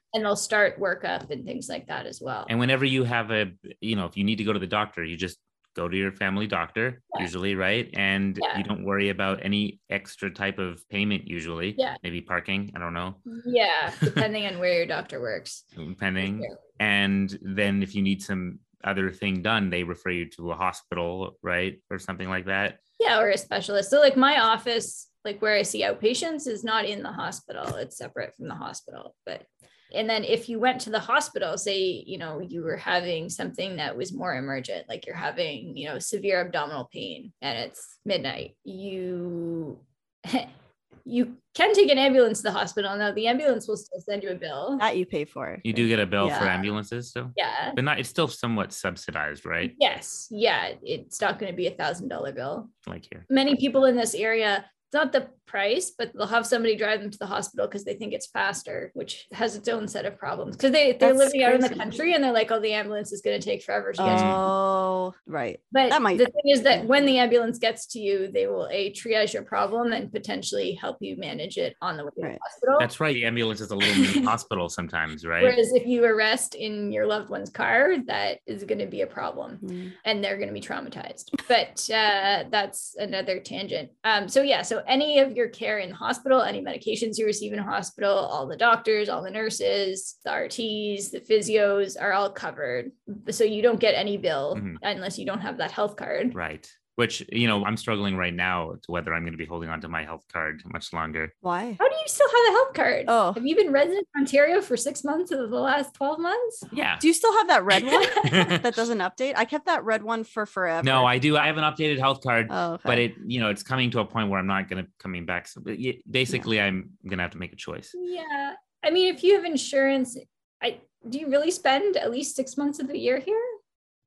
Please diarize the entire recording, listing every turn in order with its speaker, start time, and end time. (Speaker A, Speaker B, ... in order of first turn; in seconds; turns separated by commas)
Speaker A: 0.1-2.5, Speaker B: 2.5-13.2, Speaker A: 8.4-8.7, Speaker A: 13.3-15.7, Speaker B: 15.8-22.8, Speaker A: 16.2-16.6, Speaker A: 23.0-40.5, Speaker A: 41.0-44.8, Speaker C: 44.8-46.5, Speaker B: 45.6-49.7, Speaker A: 46.3-46.7, Speaker A: 47.4-47.8, Speaker A: 49.7-52.7, Speaker B: 52.9-53.3, Speaker A: 53.3-64.5, Speaker C: 61.0-61.9, Speaker C: 64.0-66.9, Speaker B: 64.0-64.4, Speaker A: 65.7-72.9, Speaker B: 72.8-75.6, Speaker A: 73.8-74.3, Speaker A: 75.4-96.4, Speaker C: 79.6-79.9, Speaker B: 94.5-94.8, Speaker B: 96.3-101.3, Speaker C: 101.4-101.8, Speaker A: 101.8-106.7, Speaker C: 103.1-103.4, Speaker B: 106.7-107.0, Speaker C: 107.0-111.1, Speaker A: 108.0-108.5, Speaker B: 108.2-108.6, Speaker B: 110.8-117.9, Speaker C: 112.5-113.0, Speaker A: 118.0-123.5